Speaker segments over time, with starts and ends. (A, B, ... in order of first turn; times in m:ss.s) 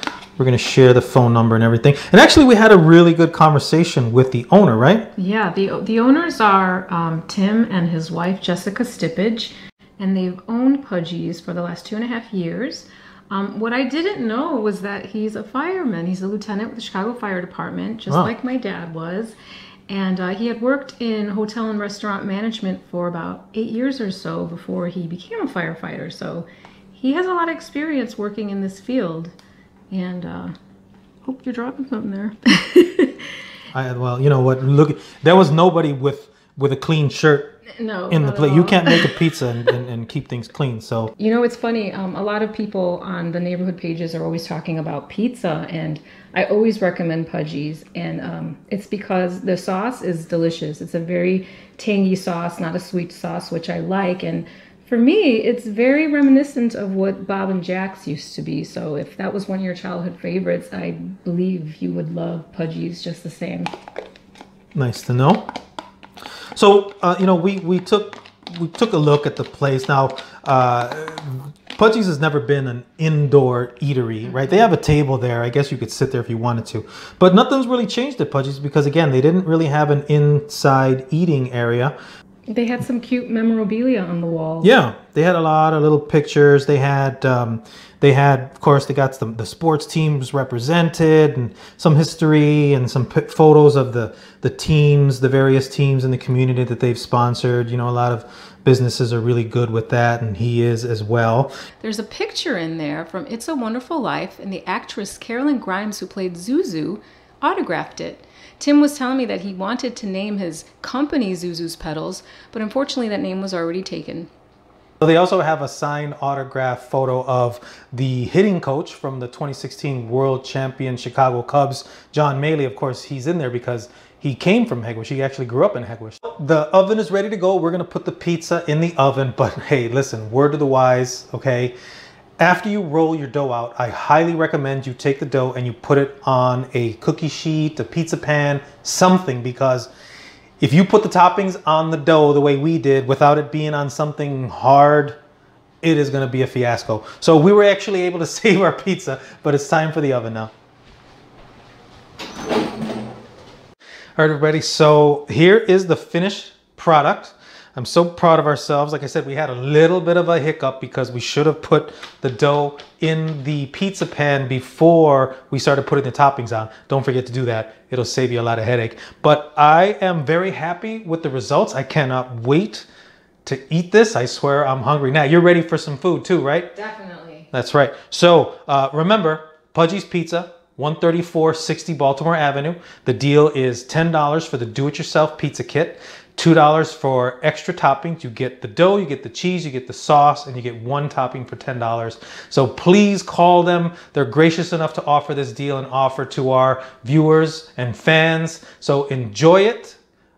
0:00.4-0:05.1 A
0:05.2-0:19.4 B
0:19.9-0:29.3 B
0:29.9-0:30.5 B
0:31.2-0:33.4 B
0:33.7-0:37.6 A
0:37.7-0:39.2 B
0:38.1-0:41.1 A
0:41.2-1:03.7 B
1:04.7-1:05.5 A
1:06.5-1:21.9 A
1:14.2-1:14.7 B
1:22.5-1:24.7 B
1:24.6-1:41.5 A
1:41.8-1:54.3 B
1:55.0-2:11.7 A
2:12.4-2:19.9 A
2:20.6-2:25.2 A
2:25.8-2:30.5 A
2:34.2-2:52.9 A
2:53.4-2:56.7 A
2:56.7-2:57.5 B
2:57.5-3:20.0 A